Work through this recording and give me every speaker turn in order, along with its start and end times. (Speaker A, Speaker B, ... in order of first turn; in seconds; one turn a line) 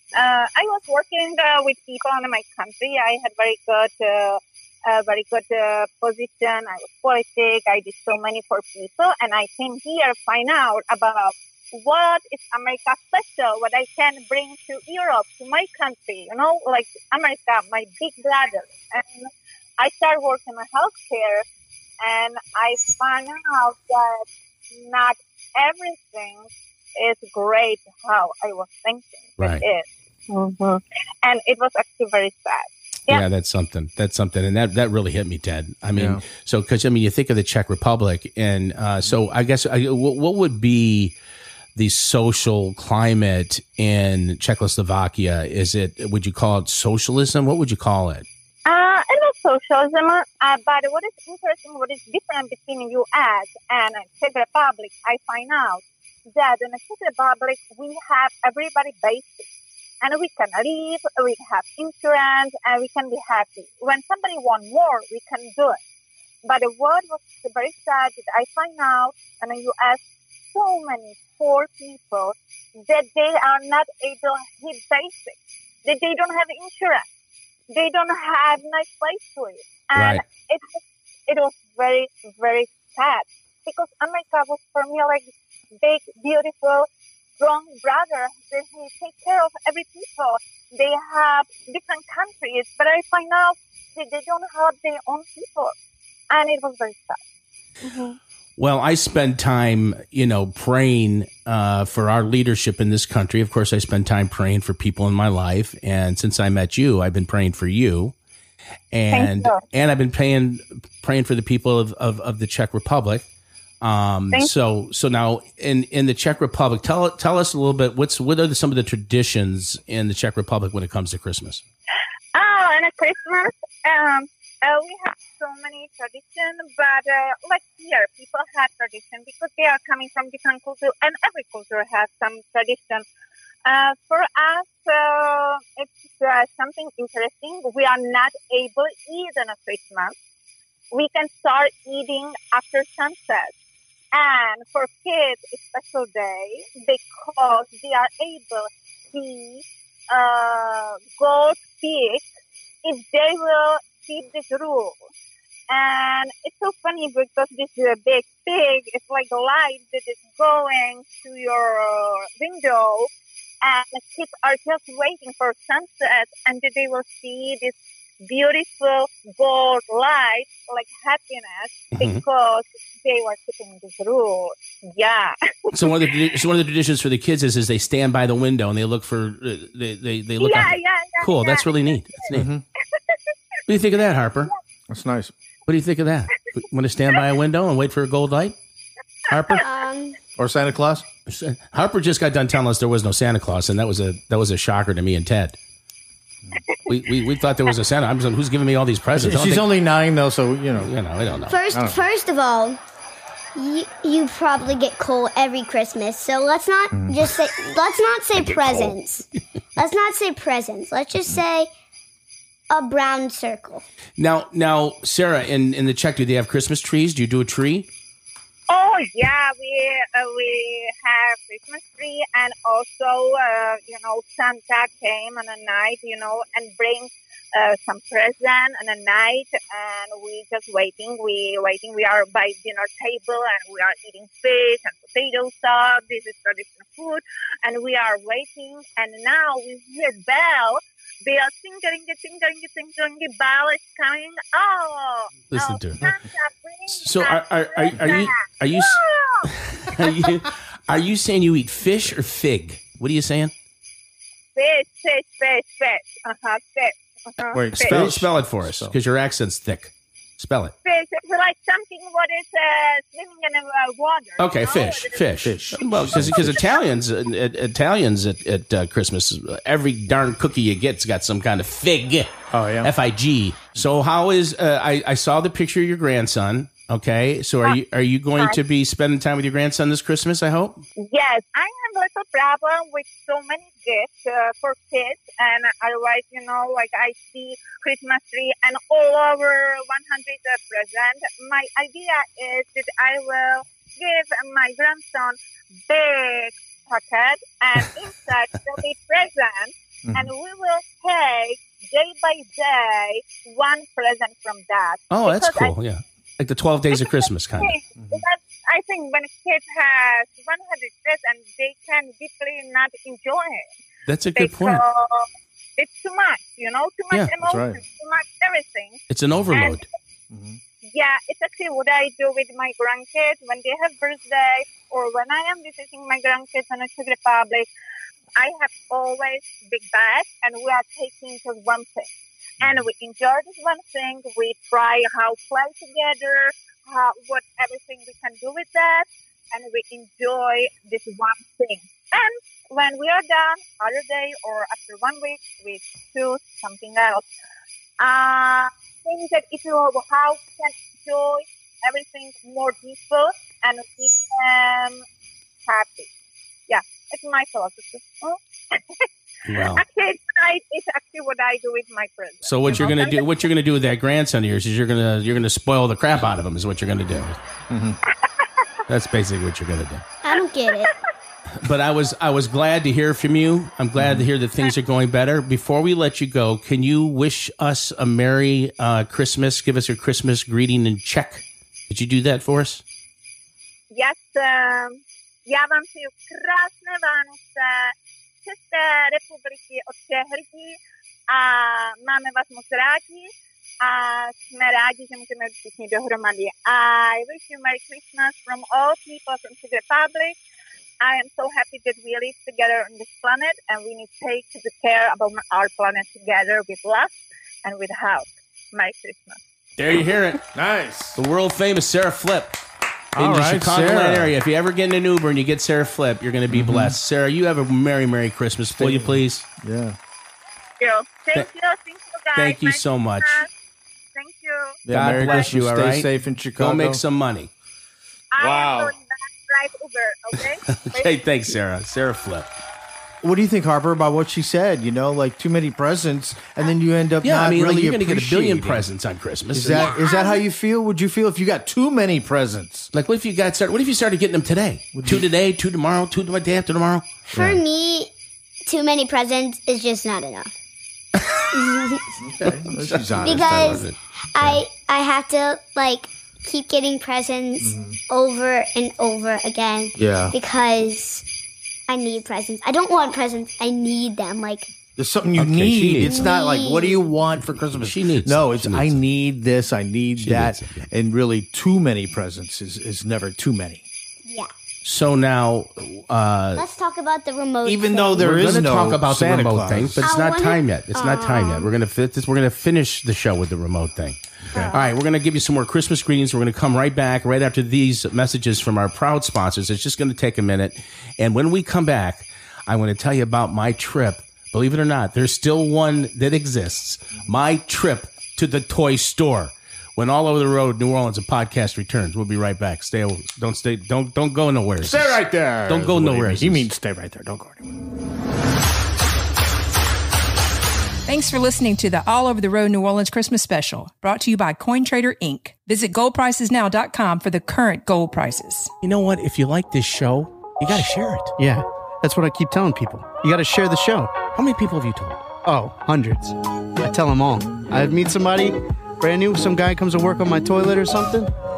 Speaker A: 0.1-21.4
Speaker A: 22.0-33.2
Speaker B: 29.4-29.6
Speaker B: 33.1-41.1
Speaker C: 35.9-36.2
Speaker B: 41.8-48.3
Speaker A: 48.7-55.8
Speaker A: 56.4-59.5
Speaker A: 60.0-65.8
Speaker A: 66.4-70.0
Speaker A: 70.5-77.1
Speaker A: 77.7-85.3
Speaker B: 79.9-80.2
Speaker A: 85.8-86.9
Speaker A: 87.4-95.8
Speaker A: 96.3-97.2
Speaker A: 97.9-98.2
Speaker B: 98.6-108.1
Speaker B: 108.9-113.2
Speaker A: 109.1-109.6
Speaker B: 113.8-121.6
Speaker A: 122.3-133.1
Speaker A: 133.7-140.2
Speaker A: 140.9-143.5
Speaker A: 144.1-152.3
Speaker A: 152.8-155.0
Speaker A: 155.7-163.1
Speaker A: 163.6-176.2
Speaker B: 172.0-172.2
Speaker B: 175.7-182.5
Speaker A: 180.4-182.3
Speaker C: 182.3-182.6
Speaker B: 183.7-184.5
Speaker C: 184.9-185.3
Speaker B: 185.7-188.6
Speaker D: 189.6-190.2
Speaker C: 190.4-191.1
Speaker B: 191.3-195.6
Speaker B: 196.9-199.7
Speaker C: 199.2-200.9
Speaker B: 200.8-201.6
Speaker D: 201.5-202.8
Speaker C: 201.7-202.0
Speaker D: 203.6-211.7
Speaker C: 206.9-207.2
Speaker B: 208.6-208.9
Speaker D: 212.7-213.8
Speaker B: 214.2-217.9
Speaker A: 218.7-249.5
Speaker B: 245.5-246.0
Speaker B: 246.9-253.5
Speaker C: 247.9-248.2
Speaker A: 254.6-258.1
Speaker C: 257.5-258.9
Speaker B: 257.8-260.7
Speaker A: 260.8-265.3
Speaker B: 264.4-280.8
Speaker C: 265.4-266.7
Speaker C: 272.5-272.9
Speaker A: 281.0-295.4
Speaker A: 295.9-305.8
Speaker C: 300.1-300.3
Speaker B: 305.1-307.8
Speaker A: 306.9-313.7
Speaker C: 308.0-308.2
Speaker B: 314.1-314.8
Speaker A: 314.4-319.9
Speaker C: 317.4-317.8
Speaker B: 319.1-319.9
Speaker C: 320.3-320.6
Speaker A: 320.9-327.7
Speaker A: 328.4-347.2
Speaker A: 348.0-355.0
Speaker A: 355.7-356.1
Speaker A: 356.7-359.1
Speaker B: 359.5-359.8
Speaker A: 359.6-363.4
Speaker B: 362.4-367.4
Speaker C: 362.7-362.9
Speaker C: 367.7-368.0
Speaker B: 368.9-370.2
Speaker D: 370.2-370.9
Speaker B: 371.6-382.8
Speaker C: 374.0-374.3
Speaker A: 383.9-387.9
Speaker A: 388.4-400.4
Speaker A: 401.0-407.1
Speaker A: 407.6-409.4
Speaker B: 409.8-410.4
Speaker C: 410.6-411.2
Speaker B: 411.2-412.6
Speaker C: 413.1-414.4
Speaker B: 413.1-419.4
Speaker C: 416.5-417.0
Speaker C: 418.8-420.0
Speaker A: 420.8-423.5
Speaker B: 422.4-423.5
Speaker A: 424.1-425.5
Speaker C: 424.9-427.0
Speaker B: 424.9-427.5
Speaker A: 428.3-431.1
Speaker C: 428.4-428.9
Speaker B: 430.7-432.5
Speaker C: 433.2-438.9
Speaker B: 437.2-439.9
Speaker C: 439.5-442.9
Speaker D: 439.7-440.4
Speaker B: 442.9-447.1
Speaker C: 444.9-445.3
Speaker C: 447.3-447.6
Speaker D: 447.3-448.1
Speaker D: 448.7-450.6
Speaker B: 451.1-451.5
Speaker D: 451.5-452.1
Speaker C: 452.2-453.9
Speaker B: 452.4-454.6
Speaker D: 453.2-461.2
Speaker C: 457.6-458.0
Speaker C: 460.0-460.4
Speaker D: 461.9-464.7
Speaker C: 465.0-473.9
Speaker B: 465.4-466.3
Speaker D: 466.0-467.1
Speaker B: 467.8-469.0
Speaker B: 470.2-470.9
Speaker B: 474.8-476.6
Speaker D: 476.6-478.4
Speaker C: 477.6-480.1
Speaker B: 478.2-484.2
Speaker D: 480.0-481.7
Speaker D: 484.5-484.9
Speaker B: 484.7-506.7
Speaker C: 504.8-507.7
Speaker E: 511.1-518.7
Speaker B: 518.8-521.3
Speaker F: 521.4-524.1
Speaker B: 524.4-525.2
Speaker F: 525.4-531.3